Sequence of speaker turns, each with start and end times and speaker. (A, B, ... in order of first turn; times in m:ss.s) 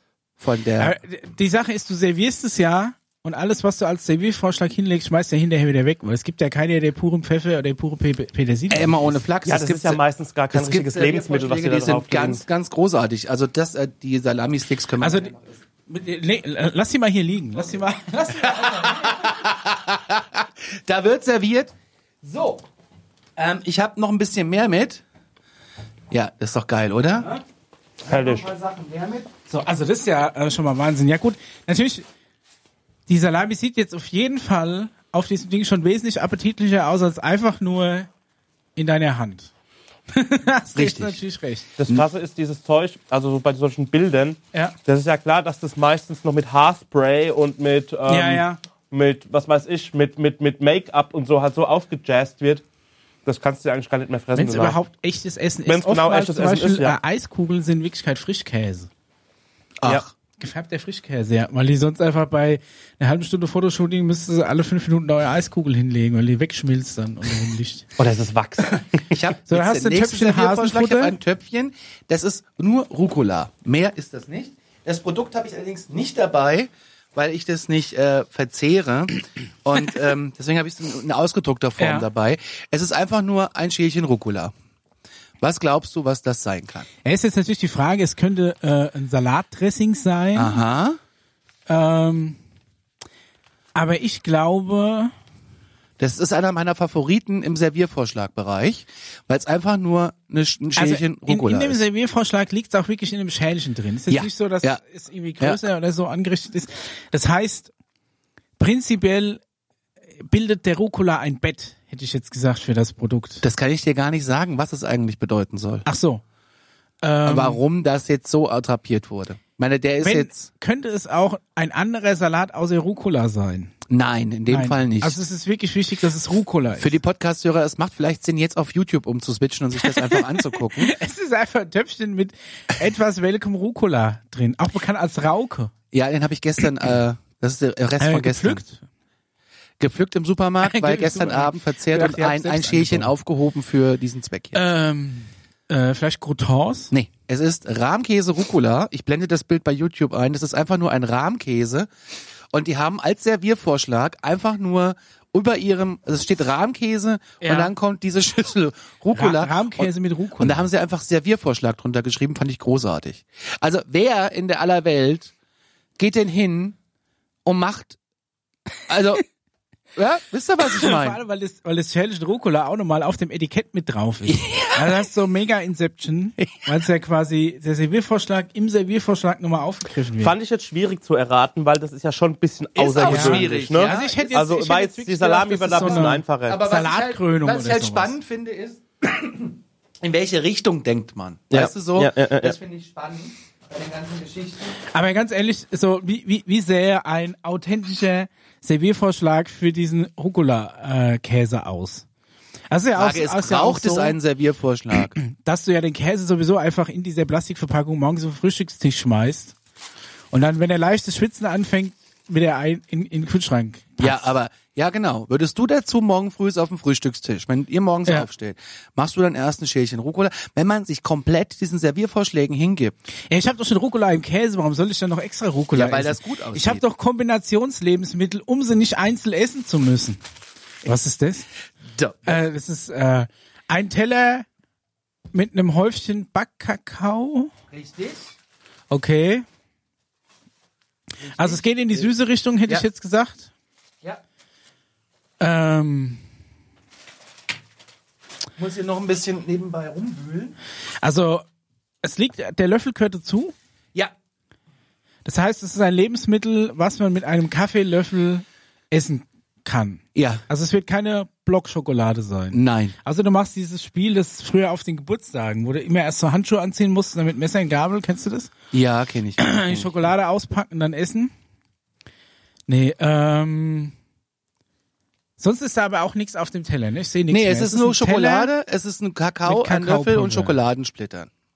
0:00.4-0:00.9 A
0:00.8-0:09.2 B
0:08.7-0:10.0 A
0:09.5-0:12.4 C
0:10.5-0:15.5 A
0:15.0-0:15.3 B
0:15.9-0:19.4 B
0:18.4-0:22.6 A
0:23.4-0:25.0 A
0:26.1-0:27.3 A
0:28.0-0:29.3 A
0:28.1-0:28.5 C
0:29.5-0:32.0 B
0:33.1-0:38.1 B
0:38.8-0:39.5 B
0:40.1-0:41.7 B
0:40.8-0:41.2 A
0:41.8-0:52.6 C
0:48.1-0:48.6 B
0:53.3-0:54.8 C
0:54.4-0:58.9 B
0:55.7-0:57.0 C
0:59.8-1:00.1 A
1:00.4-1:07.9 B
1:08.0-1:09.2 C
1:09.1-1:24.5 A
1:09.5-1:11.2 B
1:21.8-1:22.1 B
1:25.4-1:26.9 A
1:27.0-1:30.6 B
1:30.4-1:31.0 A
1:31.7-1:32.4 B
1:33.8-1:35.1 B
1:36.0-1:41.8 A
1:40.8-1:47.7 B
1:44.1-1:44.8 A
1:48.6-1:49.4 B
1:50.2-1:53.4 B
1:53.4-1:55.9 A
1:55.8-1:56.2 B
1:57.0-1:57.6 B
1:57.2-2:00.5 A
2:00.0-2:03.7 B
2:03.9-2:05.2 A
2:04.5-2:06.9 B
2:06.8-2:10.9 A
2:09.8-2:15.7 B
2:15.9-2:18.6 A
2:18.0-2:18.8 B
2:19.8-2:24.6 A
2:20.6-2:23.2 B
2:24.5-2:26.9 B
2:26.9-2:31.9 A
2:32.5-2:45.3 A
2:37.4-2:37.7 B
2:39.1-2:40.6 B
2:46.0-2:46.8 A
2:47.4-2:48.0 A
2:48.9-2:49.2 A
2:50.0-2:51.2 A
2:50.6-3:00.3 B
2:54.3-2:55.0 A
3:00.2-3:06.6 C
3:02.8-3:04.3 A
3:03.0-3:08.2 B
3:05.8-3:14.8 A
3:11.5-3:12.6 C
3:14.9-3:22.1 B
3:22.7-3:24.2 B
3:23.0-3:25.2 A
3:25.2-3:29.6 B
3:30.3-3:34.3 B
3:34.0-3:43.0 A
3:43.3-3:50.2 B
3:45.7-3:46.8 A
3:50.8-3:51.5 B
3:51.9-3:52.4 A
3:52.3-3:54.5 B
3:55.3-3:57.5 B
3:57.7-3:58.3 A
3:58.9-3:59.4 B
4:01.2-4:02.1 A
4:01.3-4:03.5 B
4:05.4-4:06.2 B
4:08.6-4:10.6 A
4:11.0-4:11.5 B
4:12.0-4:13.5 B
4:15.2-4:28.5 B
4:20.2-4:20.4 A
4:22.5-4:22.9 A
4:28.7-4:30.0 A
4:29.4-4:31.3 B
4:32.7-4:33.9 B
4:35.4-4:38.5 B
4:37.3-4:41.3 A
4:39.4-4:40.6 B